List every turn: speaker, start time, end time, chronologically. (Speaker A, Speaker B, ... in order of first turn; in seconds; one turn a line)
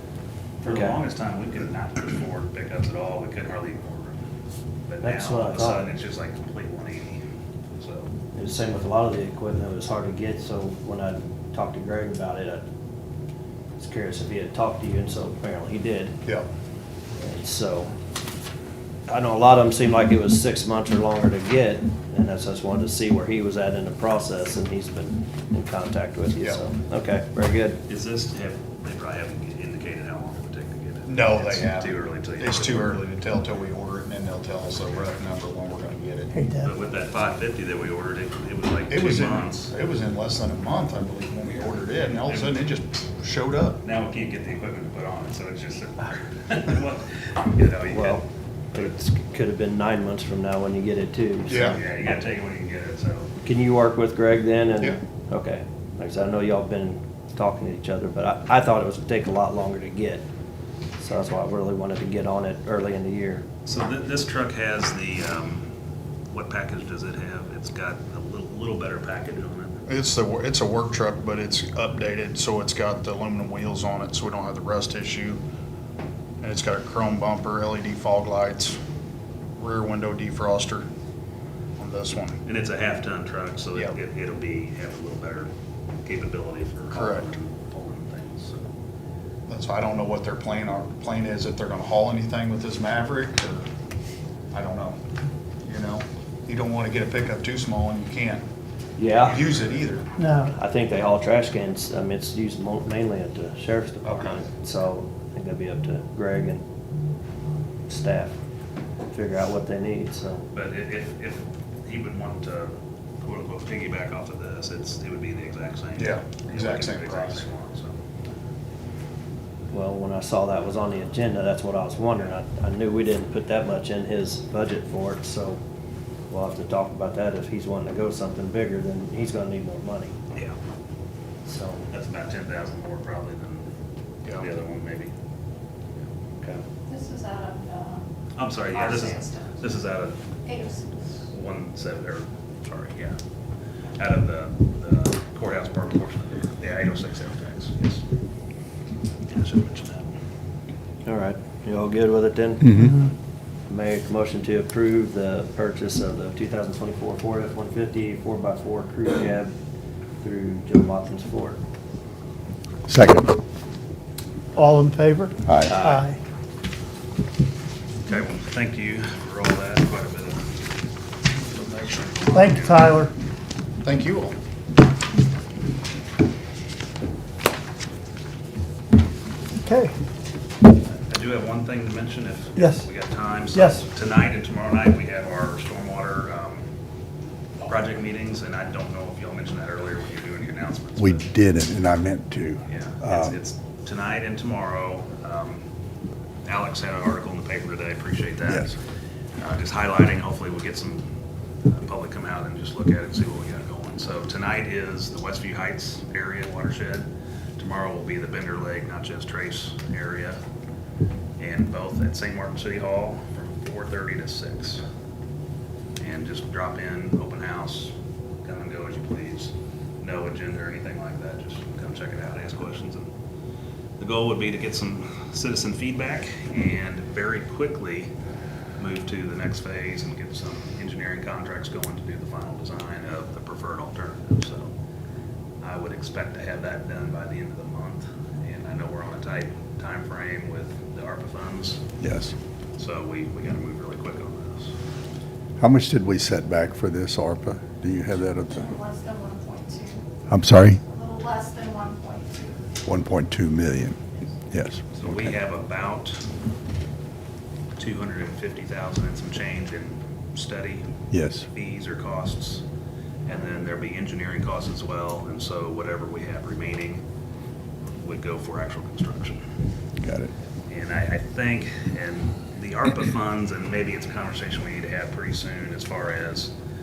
Speaker A: 0.6-4.2
Speaker B: 0.7-1.0
Speaker A: 4.8-8.1
Speaker B: 5.0-5.9
Speaker B: 8.3-12.6
Speaker B: 13.8-16.2
Speaker B: 17.2-17.9
Speaker B: 19.1-27.8
Speaker A: 27.9-33.0
Speaker C: 31.1-36.3
Speaker D: 36.3-36.7
Speaker A: 36.6-39.7
Speaker C: 38.9-43.8
Speaker A: 42.2-42.5
Speaker A: 43.8-48.2
Speaker B: 47.9-51.7
Speaker A: 51.5-53.3
Speaker C: 51.5-51.8
Speaker B: 53.4-60.2
Speaker B: 61.0-63.5
Speaker A: 63.6-65.7
Speaker A: 66.3-69.8
Speaker C: 69.9-75.4
Speaker C: 76.4-78.8
Speaker C: 79.5-80.9
Speaker C: 81.8-82.4
Speaker A: 82.4-85.5
Speaker A: 86.0-88.6
Speaker C: 86.9-87.3
Speaker C: 89.5-93.7
Speaker C: 94.5-95.0
Speaker C: 95.6-98.4
Speaker B: 99.0-99.3
Speaker C: 99.2-100.0
Speaker B: 100.2-106.6
Speaker C: 104.0-104.5
Speaker B: 107.9-108.3
Speaker B: 109.1-110.4
Speaker A: 110.5-118.0
Speaker C: 116.0-117.5
Speaker B: 119.7-125.6
Speaker B: 126.3-130.1
Speaker B: 131.4-131.8
Speaker A: 131.9-133.7
Speaker A: 134.3-135.1
Speaker E: 136.9-138.1
Speaker A: 138.3-140.2
Speaker E: 138.7-139.6
Speaker E: 140.4-140.9
Speaker A: 141.3-143.2
Speaker A: 144.0-148.0
Speaker A: 149.3-150.1
Speaker B: 151.1-152.8
Speaker F: 152.7-153.0
Speaker B: 153.7-159.5
Speaker B: 160.2-161.6
Speaker F: 162.9-163.3
Speaker D: 164.6-166.2
Speaker F: 165.5-165.8
Speaker B: 165.7-166.0
Speaker A: 168.1-170.4
Speaker A: 171.4-173.0
Speaker D: 172.3-173.1
Speaker C: 173.8-174.3
Speaker D: 179.6-179.9
Speaker A: 180.8-186.6
Speaker D: 182.6-182.9
Speaker D: 183.5-183.8
Speaker A: 187.6-191.2
Speaker F: 191.0-193.3
Speaker A: 192.7-195.6
Speaker A: 196.4-198.7
Speaker A: 199.4-201.1
Speaker A: 201.7-210.4
Speaker A: 211.4-214.8
Speaker A: 216.0-223.1
Speaker A: 224.0-228.1
Speaker A: 228.8-234.7
Speaker A: 235.6-241.8
Speaker F: 242.0-242.3
Speaker A: 242.8-244.7
Speaker F: 245.6-248.8
Speaker E: 248.5-250.0
Speaker F: 250.3-250.8
Speaker E: 250.8-252.6
Speaker F: 252.8-254.0
Speaker F: 254.5-255.3
Speaker A: 254.9-256.2
Speaker A: 257.8-262.6
Speaker F: 261.1-261.4
Speaker A: 263.2-267.0
Speaker A: 268.0-269.4
Speaker F: 270.0-270.3
Speaker A: 270.7-276.5